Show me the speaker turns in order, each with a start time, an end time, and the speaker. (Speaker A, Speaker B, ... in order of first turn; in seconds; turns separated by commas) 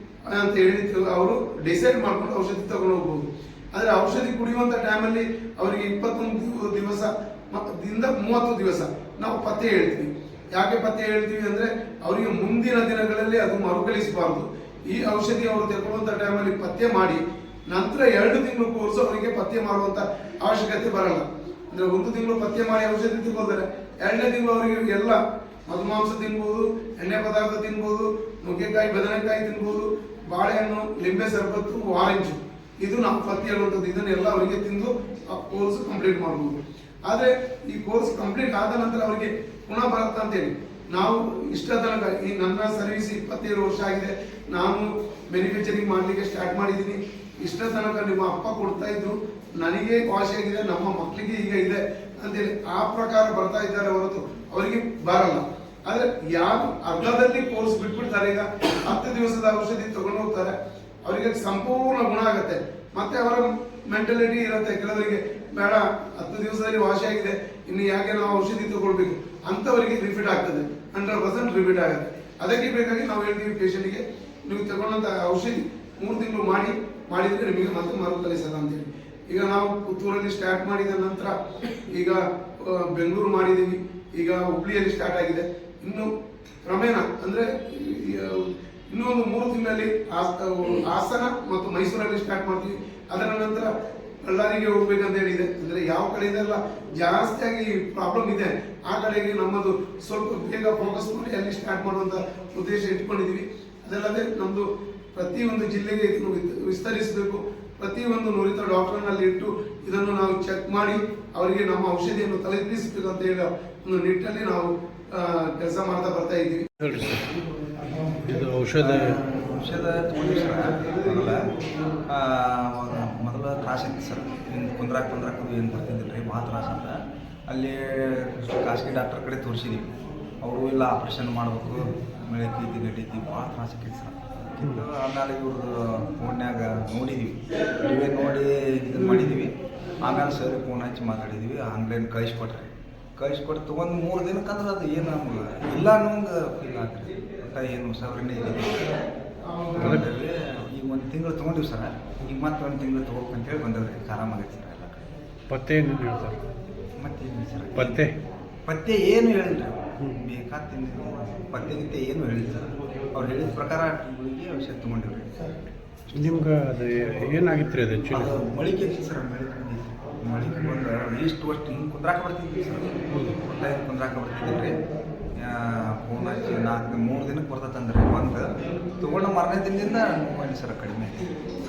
Speaker A: 0.3-86.1, Speaker A: 86.6-93.7, Speaker A: 94.2-116.8, Speaker B: 116.8-117.3, Speaker B: 118.2-119.2, Speaker C: 118.8-121.3, Speaker C: 122.1-129.9, Speaker C: 130.4-149.0, Speaker C: 149.7-155.0, Speaker B: 149.8-150.0, Speaker B: 155.5-156.4, Speaker C: 157.0-158.0, Speaker B: 157.7-158.1, Speaker C: 158.7-165.5, Speaker C: 166.0-166.4, Speaker B: 166.1-168.3, Speaker C: 168.1-174.8, Speaker B: 173.1-173.4, Speaker C: 175.3-181.3